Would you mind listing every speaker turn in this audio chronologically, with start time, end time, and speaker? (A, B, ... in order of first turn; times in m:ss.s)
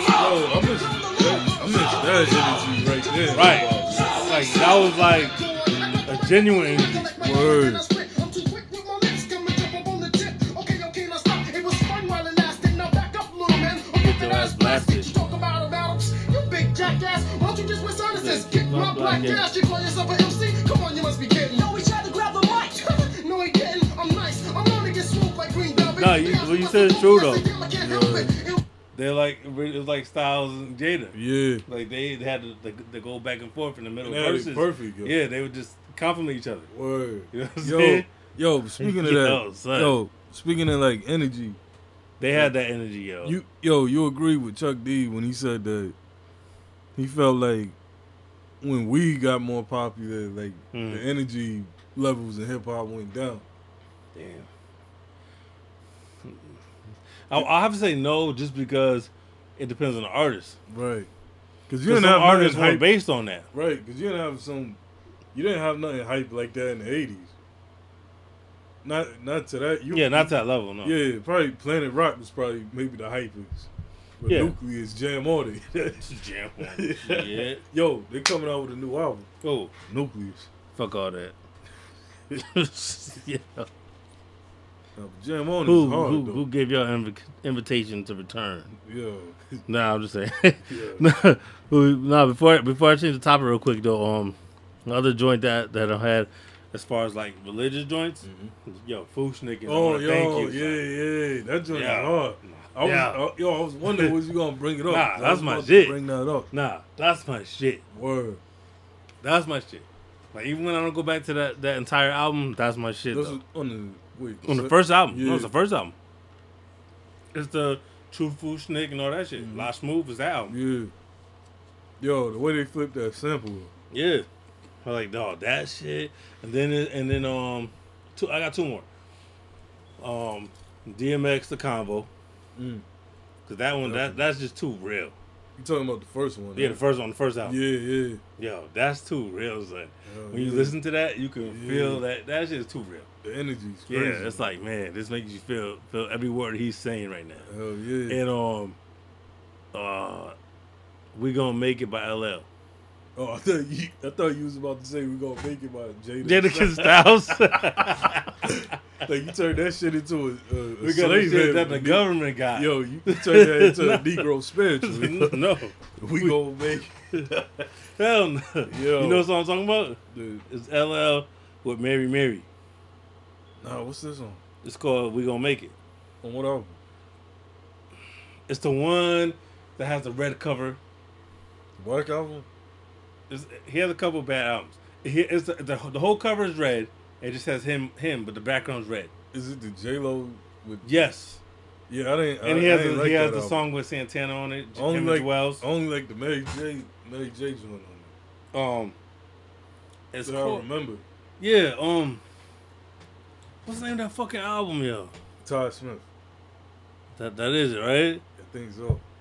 0:00.1-0:04.1 A
0:03.3-0:05.4 B
0:04.0-0:28.6 C
0:06.0-0:07.1 B
0:07.2-0:07.8 A
0:14.0-0:15.1 B
0:18.1-0:19.5 B
0:25.9-0:27.5 B
0:27.7-0:28.4 A
0:28.9-0:36.7 B
0:31.1-0:31.6 A
0:34.0-0:35.2 A
0:36.7-0:41.6 A
0:37.3-0:38.1 B
0:38.8-0:40.0 B
0:42.2-0:43.4 B
0:43.2-0:45.9 A
0:47.0-0:47.8 A
0:48.6-0:53.4 A
0:50.7-0:51.0 B
0:54.1-0:54.5 B
0:56.2-0:56.6 B
0:57.3-1:00.6 B
1:00.7-1:01.1 A
1:01.7-1:02.9 A
1:01.8-1:03.5 B
1:03.5-1:04.8 A
1:05.3-1:07.3 A
1:08.8-1:13.7 A
1:09.9-1:11.0 B
1:14.2-1:16.0 A
1:14.3-1:14.6 B
1:16.0-1:17.6 B
1:16.6-1:19.3 A
1:19.4-1:19.7 B
1:19.9-1:20.5 A
1:20.7-1:21.4 B
1:22.3-1:23.7 B
1:25.0-1:26.4 A
1:25.6-1:28.7 B
1:28.7-1:29.6 A
1:29.7-1:40.8 B
1:30.7-1:31.0 A
1:38.2-1:38.5 A
1:39.6-1:46.5 A
1:41.7-1:43.2 B
1:43.9-1:44.1 B
1:44.9-1:46.0 B
1:46.5-1:47.8 B
1:47.9-1:48.4 A
1:49.2-1:53.4 B
1:53.1-1:55.5 A
1:54.4-1:55.9 B
1:57.3-2:00.5 B
1:59.4-1:59.7 A
2:00.5-2:00.9 A
2:02.0-2:03.7 A
2:03.9-2:04.2 B
2:04.8-2:08.8 B
2:10.0-2:12.1 B
2:12.6-2:12.8 A
2:13.4-2:15.1 B
2:13.8-2:14.2 A
2:15.6-2:16.8 A
2:16.6-2:17.6 B
2:17.4-2:18.2 A
2:18.4-2:23.1 B
2:20.0-2:20.8 A
2:21.4-2:22.0 A
2:23.2-2:24.4 A
2:23.9-2:27.5 B
2:27.5-2:28.2 A
2:28.1-2:28.8 B
2:29.7-2:30.4 B
2:31.1-2:32.5 B
2:33.2-2:45.4 A
2:36.2-2:38.6 B
2:40.8-2:44.2 B
2:44.8-2:46.4 B
2:46.0-2:47.7 A
2:48.0-2:52.4 B
2:48.6-2:49.3 A
2:50.1-2:50.4 A
2:53.6-2:54.4 A
2:54.6-2:55.7 B
2:56.2-2:56.8 A
2:58.5-3:00.8 B
3:01.8-3:02.5 A
3:03.3-3:09.1 B
3:09.3-3:10.9 A
3:10.8-3:11.4 B
3:11.9-3:13.6 A
3:12.4-3:15.6 B
3:14.7-3:18.1 A
3:18.5-3:19.0 B
3:20.1-3:20.6 B
3:20.2-3:21.0 A
3:21.4-3:22.2 B
3:23.6-3:25.1 B
3:25.4-3:26.0 A
3:27.2-3:28.2 B
3:28.4-3:29.0 A